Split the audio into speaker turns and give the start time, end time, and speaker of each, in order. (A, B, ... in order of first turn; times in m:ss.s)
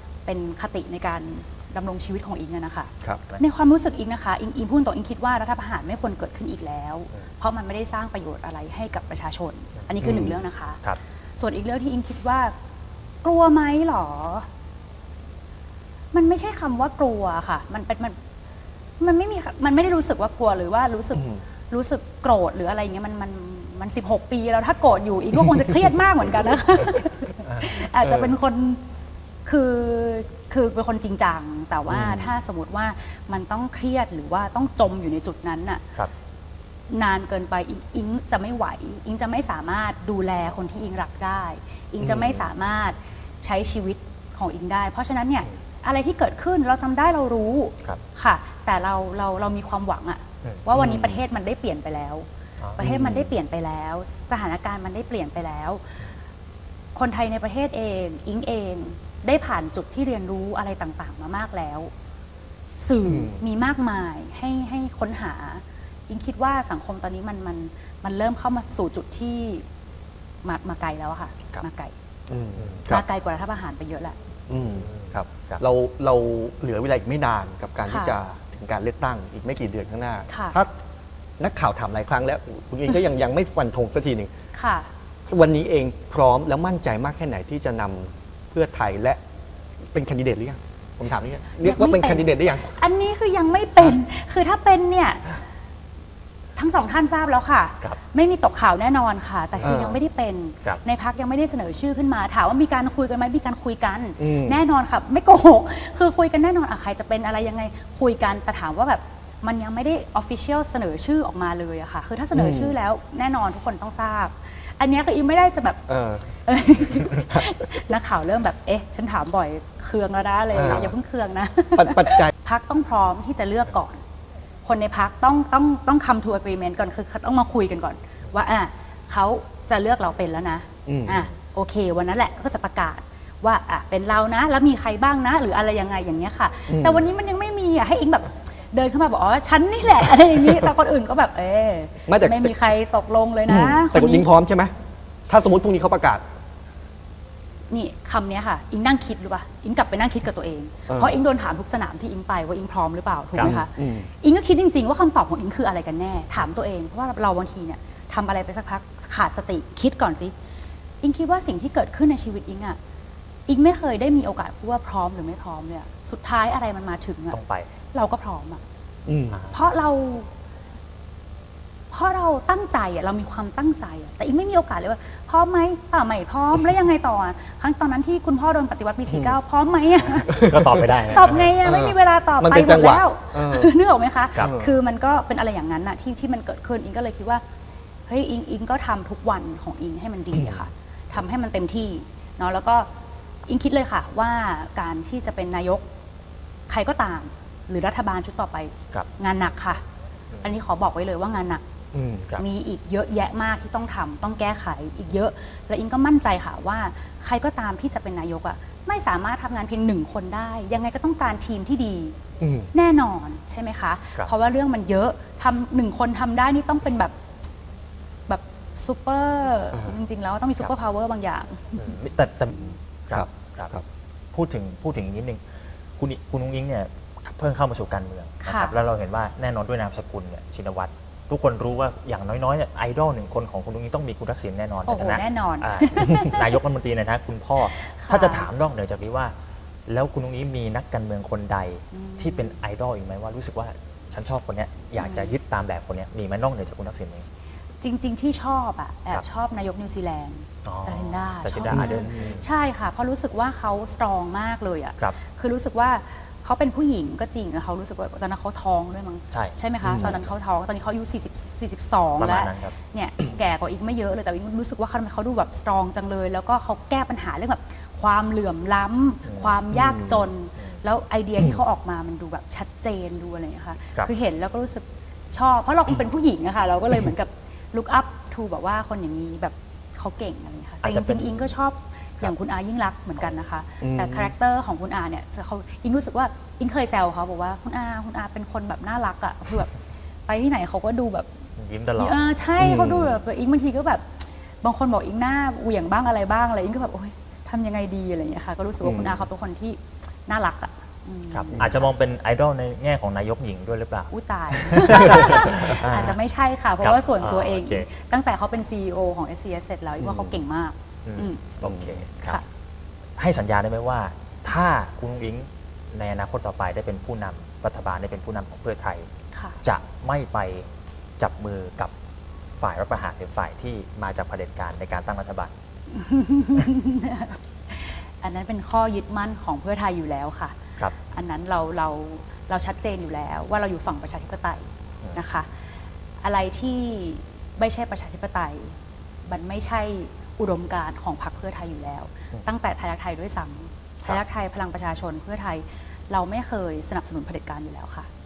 0:00.2-0:10.8 A
0:10.0-0:10.4 B
0:11.4-0:12.5 A
0:13.2-0:14.4 A
0:16.1-0:18.2 A
0:19.0-0:28.8 A
0:21.2-0:21.4 B
0:27.6-0:28.3 B
0:29.4-0:35.8 A
0:31.9-0:32.2 B
0:36.9-0:52.2 A
0:42.0-0:42.4 C
0:50.7-0:51.2 B
0:52.6-0:52.9 C
0:52.8-0:55.8 A
0:52.8-0:53.3 B
0:56.9-1:01.9 A
1:02.8-1:09.6 A
1:03.0-1:03.4 B
1:10.4-1:11.9 A
1:12.3-1:13.0 B
1:12.9-1:14.1 A
1:14.5-1:20.7 B
1:14.7-1:15.6 C
1:17.8-1:18.2 A
1:20.3-1:20.6 A
1:21.4-1:24.3 B
1:24.5-1:24.9 A
1:25.3-1:29.2 B
1:29.9-1:32.7 B
1:31.6-1:35.3 A
1:36.6-1:55.8 A
1:39.6-1:40.0 B
1:44.2-1:44.6 B
1:52.3-1:52.8 B
1:55.9-1:56.2 B
1:56.4-2:04.0 A
2:00.5-2:00.9 B
2:01.7-2:02.3 B
2:04.6-2:24.3 A
2:10.8-2:11.3 B
2:16.7-2:17.1 B
2:22.1-2:22.6 B
2:23.5-2:24.7 B
2:25.3-2:26.2 B
2:27.7-2:40.3 A
2:30.9-2:31.2 B
2:33.4-2:34.1 B
2:41.0-2:42.8 A
2:43.5-2:47.4 A
2:47.3-2:47.7 C
2:47.9-2:48.6 A
2:49.0-2:49.5 B
2:49.5-2:50.3 A
2:51.9-3:07.4 A
2:59.1-2:59.3 B
3:00.2-3:01.5 C
3:00.3-3:00.8 B
3:01.6-3:03.7 B
3:04.4-3:04.7 B
3:08.1-3:12.9 A
3:10.4-3:10.6 B
3:13.4-3:15.8 A
3:16.7-3:19.8 A
3:20.4-3:21.6 A
3:21.9-3:22.3 B
3:22.4-3:32.1 A
3:32.4-3:32.7 B
3:32.7-3:37.1 A
3:38.3-3:41.9 A
3:41.8-3:43.7 C
3:43.1-3:43.8 B
3:44.3-3:45.4 C
3:46.0-3:59.3 C
3:48.4-3:48.7 A
3:54.8-3:56.6 A
3:57.7-3:58.5 A
3:59.9-4:07.2 C
4:01.9-4:02.6 A
4:05.0-4:05.3 A
4:07.8-4:49.7 A
4:10.6-4:12.4 C
4:11.7-4:12.4 B
4:19.3-4:20.3 C
4:19.8-4:20.1 B
4:22.2-4:22.7 C
4:29.2-4:29.6 C
4:29.7-4:30.3 B
4:40.8-4:41.5 C
4:43.8-4:44.3 B
4:50.3-4:51.3 A
4:51.6-4:52.2 C
4:52.0-4:54.0 A
4:52.6-4:53.2 B
4:54.6-5:01.8 A
4:58.8-4:59.2 B
5:01.3-5:06.2 C
5:04.1-5:11.4 A
5:06.8-5:07.9 C
5:10.0-5:10.4 B
5:11.0-5:12.4 C
5:11.6-5:12.0 B
5:12.2-5:12.4 A
5:13.2-5:19.1 C
5:19.3-5:19.6 A
5:19.6-5:20.7 C
5:21.2-5:21.9 C
5:22.6-5:25.5 C
5:25.9-5:35.5 A
5:36.2-5:38.7 A
5:39.3-5:48.1 A